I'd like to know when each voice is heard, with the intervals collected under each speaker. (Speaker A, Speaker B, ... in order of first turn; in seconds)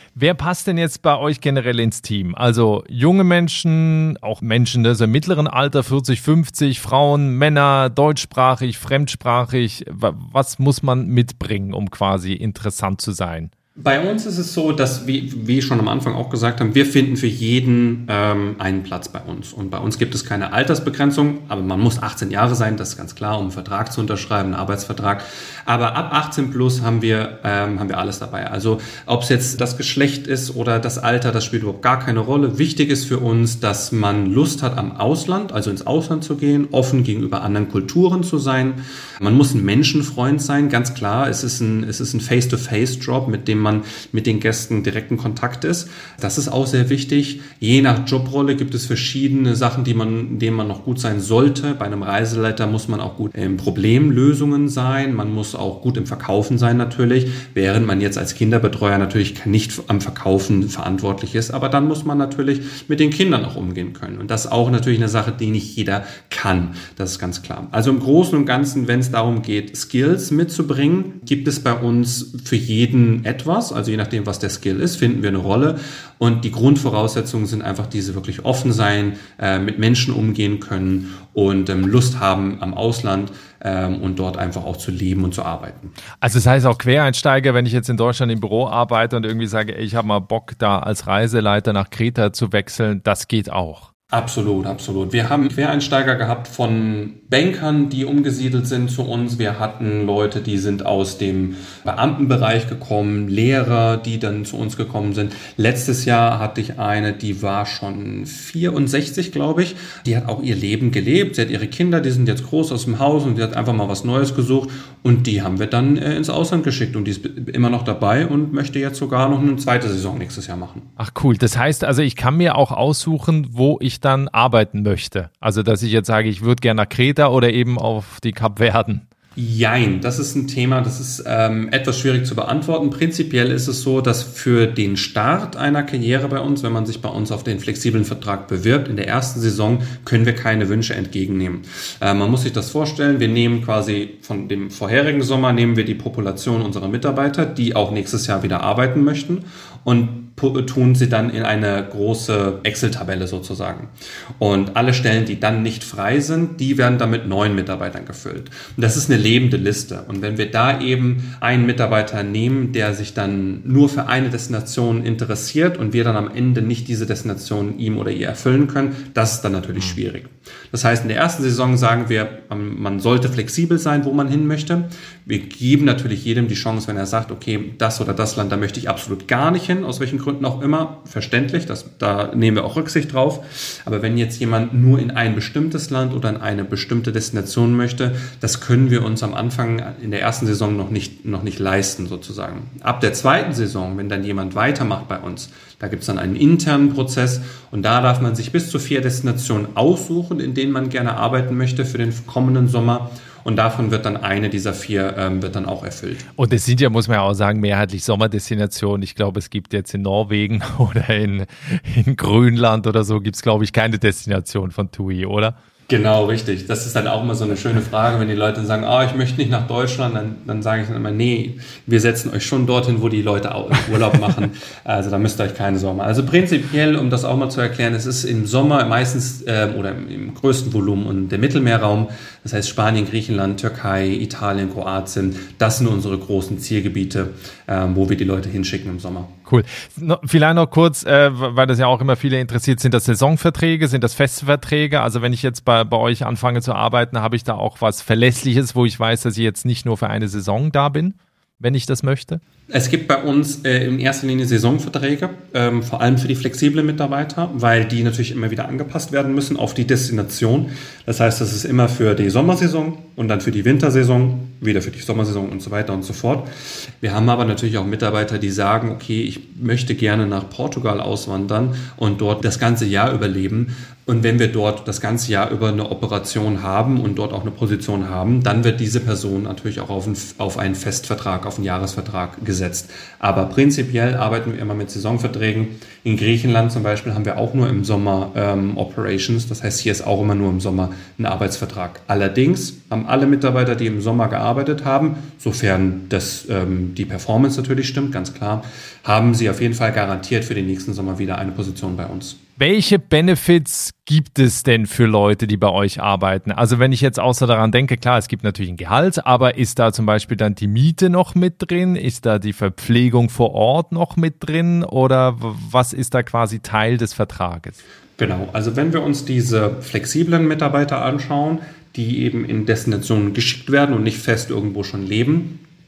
Speaker A: 0.1-13.5, 86.2-93.9, 121.0-129.0, 206.4-215.5, 239.4-252.4, 302.6-317.8
Speaker B: 13.8-85.9, 94.1-120.9, 129.3-206.2, 215.9-239.3, 252.7-266.5, 267.0-302.4, 318.2-325.6